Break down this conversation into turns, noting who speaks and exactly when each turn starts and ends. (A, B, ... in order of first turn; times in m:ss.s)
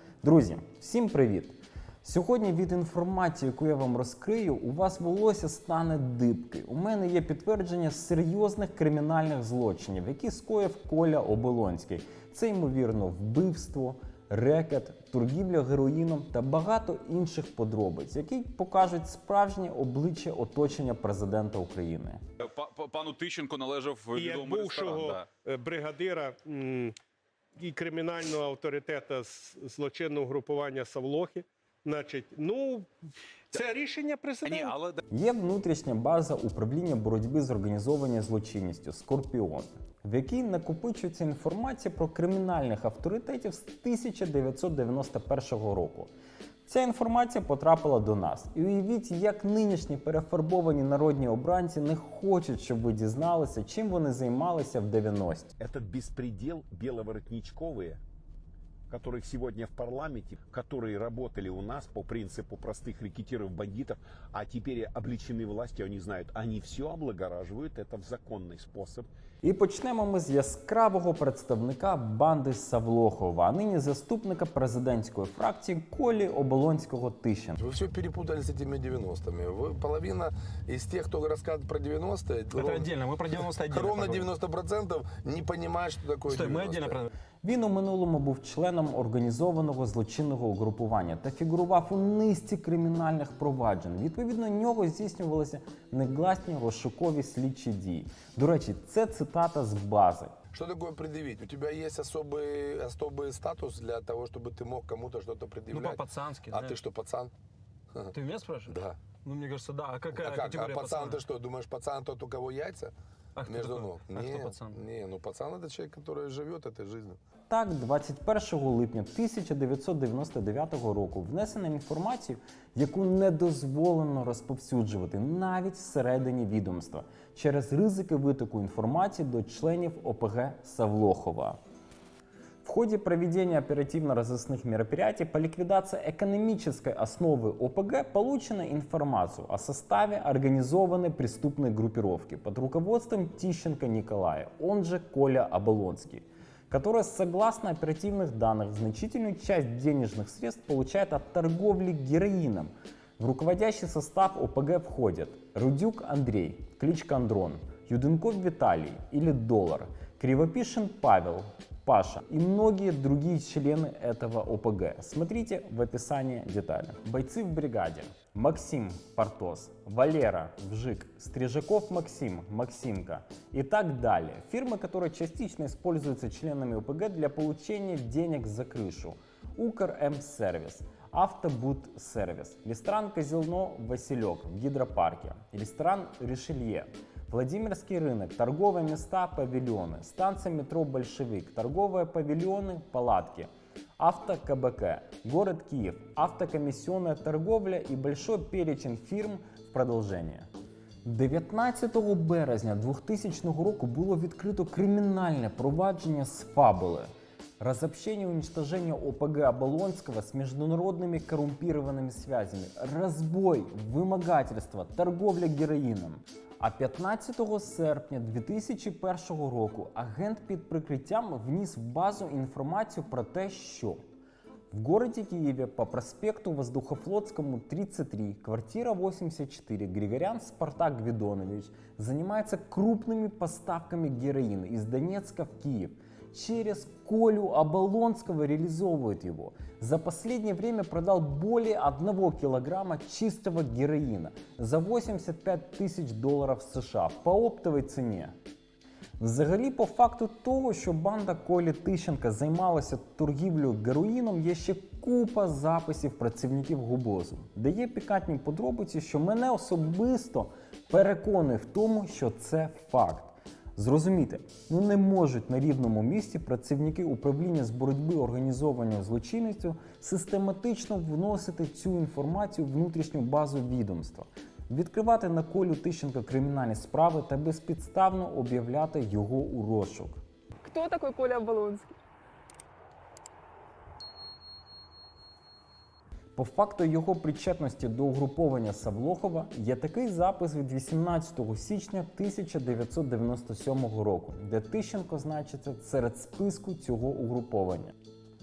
0:00.2-0:22.2 A
0:22.4-0:25.2 B
0:24.2-0:25.2 C
0:28.3-0:29.9 C
0:32.3-0:32.6 C
0:33.6-0:34.7 C
0:34.4-0:35.0 B
0:35.1-0:46.1 A
0:46.7-0:55.5 A
0:55.6-0:58.0 D
0:58.9-1:09.1 D
1:09.4-1:17.6 A
1:17.6-1:27.1 E
1:22.6-1:24.3 F
1:26.3-1:27.1 F
1:27.4-1:40.4 A
1:40.5-1:47.3 E
1:45.7-1:46.8 F
1:48.1-1:51.2 F
1:48.7-1:49.0 E
1:50.1-1:52.9 E
1:53.4-1:54.8 F
1:53.5-1:57.2 E
1:57.5-2:11.6 A
2:12.6-3:13.5 A
3:14.0-3:20.5 A
3:21.0-3:27.1 A
3:27.6-3:44.0 A
3:44.7-4:08.3 A
4:09.2-4:40.2 A
4:40.6-4:41.9 D
4:46.4-4:57.9 A